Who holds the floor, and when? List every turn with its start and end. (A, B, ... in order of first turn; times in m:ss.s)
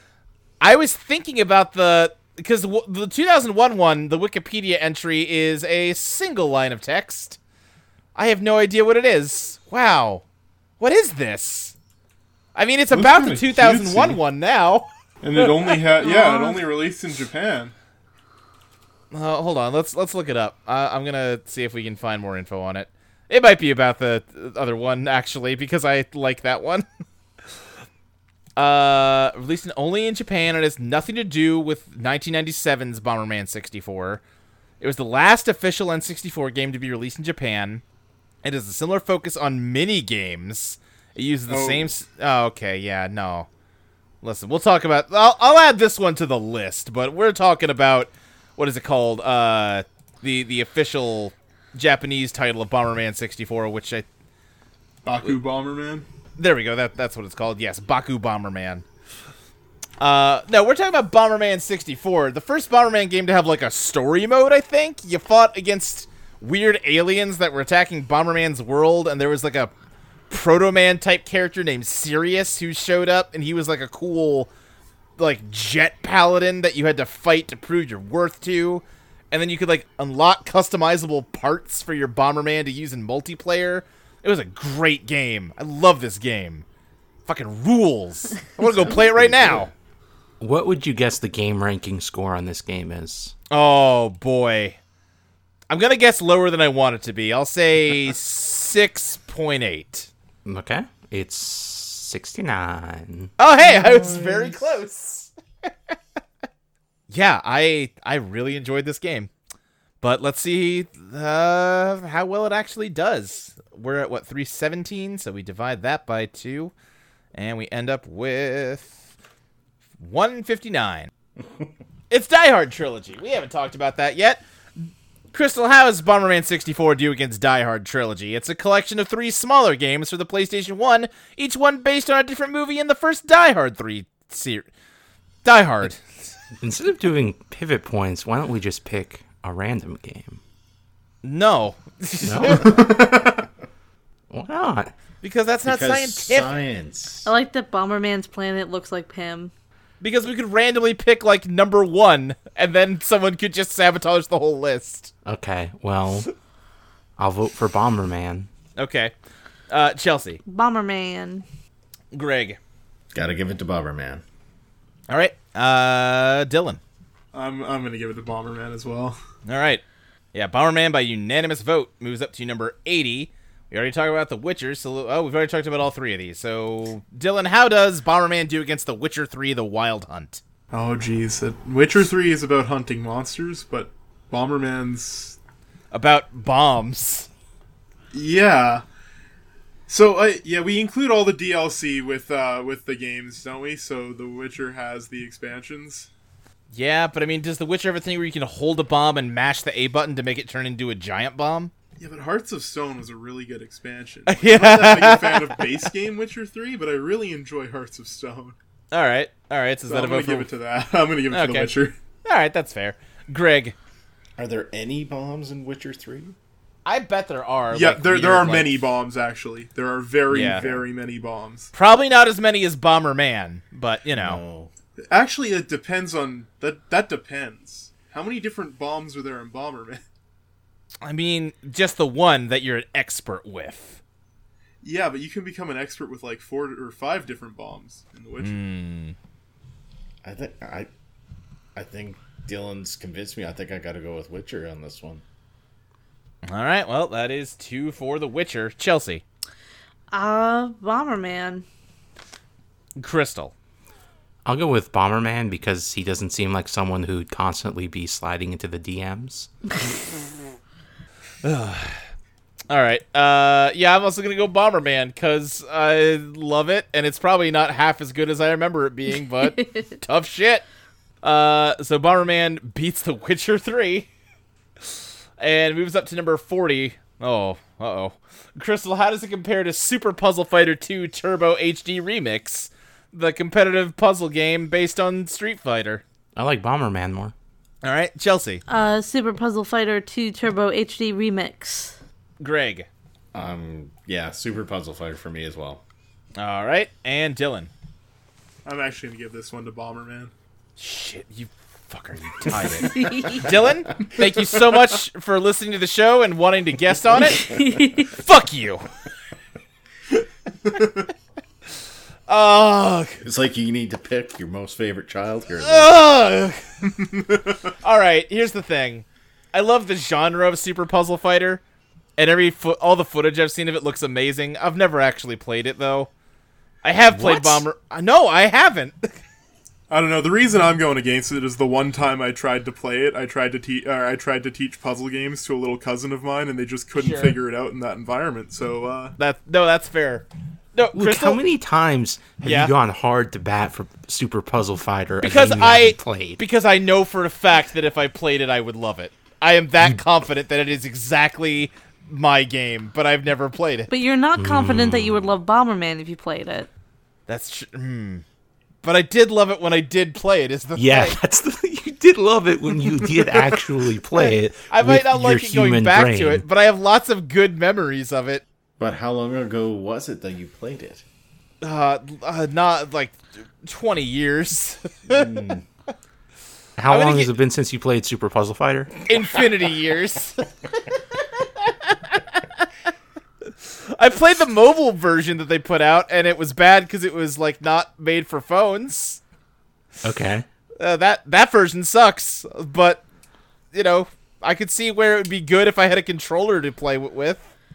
0:00.6-0:07.4 A
0:08.2-0:10.2 A
0:10.8-0:11.7 A
0:12.6-0:15.8 A
0:12.9-0:14.2 B
0:15.2-0:17.7 B
0:16.0-0:16.6 C
0:19.1-0:26.9 A
0:28.6-0:34.2 A
0:34.8-0:37.8 A
0:38.4-0:43.5 A
0:41.5-0:41.9 B
0:44.2-0:54.0 A
0:55.0-0:56.1 B
0:56.4-0:58.8 A
1:00.0-1:09.7 A
1:10.3-1:14.5 A
1:15.2-1:26.6 A
1:27.3-1:29.7 A
1:28.6-1:29.7 D
1:30.4-1:33.3 E
1:33.5-1:34.8 A
1:35.7-1:40.1 A
1:40.4-1:43.3 E
1:43.4-1:45.3 A
1:43.7-1:44.6 D
1:47.1-1:49.3 A
1:50.0-1:56.7 A
1:57.4-1:59.0 A
2:00.0-2:01.1 A
2:01.4-2:01.7 D
2:02.1-2:04.4 A
2:05.3-2:14.7 A
2:15.4-2:16.0 A
2:16.6-2:20.4 E
2:21.2-2:22.8 A
2:22.2-2:22.8 E
2:22.5-2:23.5 B
2:24.3-2:24.9 E
2:25.2-2:26.5 A
2:25.6-2:27.3 D
2:27.2-2:29.5 C
2:30.0-2:35.1 A
2:35.2-2:36.3 E
2:37.2-2:38.5 E
2:38.8-2:39.1 A
2:39.7-2:40.4 A
2:40.4-2:41.4 C
2:42.1-2:42.6 A
2:43.1-2:44.2 D
2:45.1-2:46.8 A
2:47.3-2:49.2 B
2:49.5-2:49.8 A
2:50.3-3:00.4 A
3:00.7-3:05.4 B
3:05.9-3:07.3 A
3:08.1-3:08.8 B
3:09.9-3:16.1 B
3:16.7-3:21.7 A
3:22.0-3:28.6 B
3:24.3-3:25.6 A
3:28.9-3:30.5 A
3:29.9-3:32.0 B
3:31.3-3:31.7 A
3:32.2-3:33.8 A
3:34.4-3:36.4 D
3:36.9-3:38.8 A
3:37.7-3:41.7 B
3:40.3-3:40.7 A
3:40.3-3:40.8 D
3:41.7-3:44.4 A
3:44.1-3:44.7 D
3:45.1-3:50.0 B
3:51.0-3:54.0 A
3:54.8-3:58.6 B
3:58.4-3:59.2 A
4:00.2-4:00.9 D
4:01.8-4:05.2 D
4:06.4-4:09.2 A
4:10.1-4:11.7 C
4:13.0-4:13.5 A
4:14.4-4:19.5 E
4:21.4-4:22.0 A
4:22.7-4:30.6 A
4:29.4-4:29.9 C
4:31.2-4:34.1 A
4:35.4-4:46.0 A
4:46.4-4:47.3 E
4:47.8-4:48.6 A
4:48.7-4:52.0 C
4:52.4-4:52.9 A
4:53.3-4:55.8 D
4:56.4-4:57.7 A
4:58.6-5:00.3 B
5:00.8-5:07.5 A
5:02.6-5:03.5 C
5:07.2-5:08.2 C
5:07.3-5:07.9 D
5:08.1-5:08.8 A
5:10.7-5:11.0 B
5:12.3-5:13.2 A
5:13.2-5:16.0 D
5:15.6-5:16.6 A
5:17.2-5:17.6 B
5:17.8-5:21.6 A
5:22.2-5:26.1 A
5:26.8-5:29.2 A
5:27.1-5:27.6 E
5:29.9-5:39.2 B
5:37.0-5:37.4 A
5:39.2-5:41.4 A
5:40.9-5:46.4 E
5:42.4-5:42.7 A
5:45.2-5:53.9 A
5:53.9-5:56.7 C
5:54.4-5:55.3 E
5:57.3-5:58.2 A
5:58.8-6:01.2 A
6:00.8-6:06.4 E
6:04.2-6:08.4 A
6:08.8-6:11.0 D
6:11.6-6:15.3 A
6:15.1-6:15.6 D
6:16.8-6:19.0 E
6:16.9-6:17.3 A
6:19.1-6:22.7 A
6:23.9-6:29.2 A
6:30.0-6:30.5 E
6:30.8-6:33.0 A
6:33.7-6:37.4 A